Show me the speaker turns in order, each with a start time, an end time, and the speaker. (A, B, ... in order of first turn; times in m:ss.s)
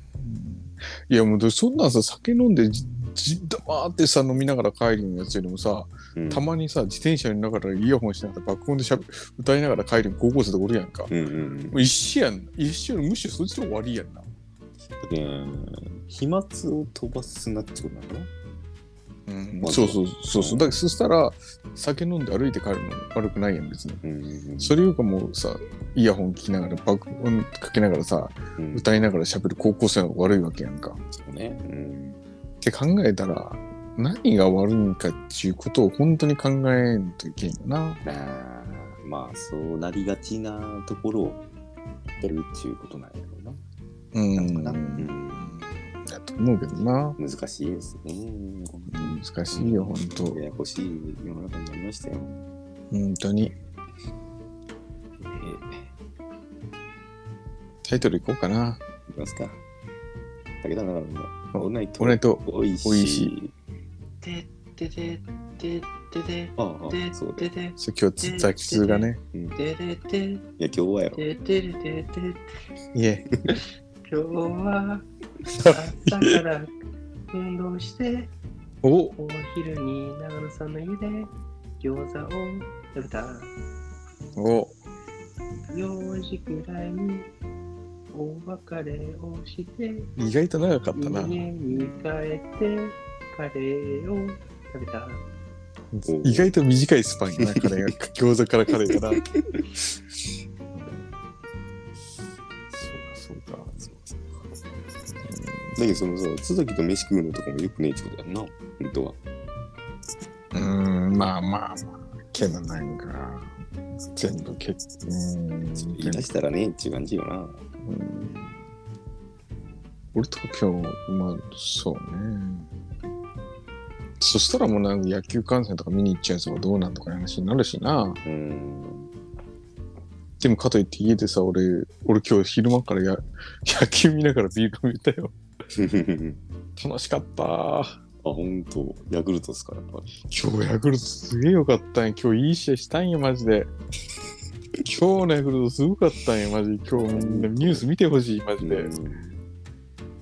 0:00.2-0:11.1 A
0:06.1-0:06.5 B
0:11.1-0:11.9 B
0:11.7-0:14.3 A
0:14.9-0:18.3 B
0:19.3-0:24.0 A
0:19.6-0:20.7 B
0:24.0-0:24.8 B
0:24.6-0:31.0 A
0:28.6-0:28.9 B
0:31.1-0:32.2 B
0:32.6-0:38.0 A
0:38.0-0:41.4 B
0:42.2-0:43.6 B
0:44.1-0:47.2 A
0:44.4-0:45.6 B
0:47.2-0:52.5 B
0:48.9-0:50.4 A
0:52.9-0:53.5 A
0:55.2-0:55.9 B
0:57.8-0:58.8 A
0:59.1-0:59.6 B
1:00.6-1:03.5 B
1:01.5-1:03.3 A
1:04.2-1:10.5 C
1:06.6-1:07.5 B
1:07.8-1:09.2 A
1:10.6-1:11.2 B
1:11.1-1:12.4 C
1:12.9-1:13.3 A
1:14.1-1:15.1 C
1:15.6-1:16.4 A
1:15.7-1:16.7 C
1:17.3-1:18.3 C
1:18.8-1:19.1 A
1:19.2-1:23.5 C
1:24.4-1:24.8 A
1:25.7-1:27.3 C
1:28.1-1:30.1 C
1:30.2-1:31.5 A
1:31.0-1:35.2 C
1:35.9-1:39.2 A
1:36.0-1:36.5 B
1:39.2-1:39.6 B
1:42.8-1:43.8 A
1:43.7-1:44.4 B
1:45.2-1:45.8 A
1:45.8-1:49.2 B
1:50.5-1:53.5 A
1:54.1-1:56.3 A
1:55.9-1:57.6 B
1:57.8-1:58.6 A
2:00.1-2:02.7 A
2:04.2-2:08.2 A
2:08.2-2:09.1 B
2:10.4-2:15.3 A
2:15.7-2:16.4 B
2:16.8-2:18.0 A
2:18.2-2:20.1 B
2:20.2-2:23.7 A
2:24.8-2:28.9 A
2:26.9-2:27.8 B
2:28.6-2:29.4 B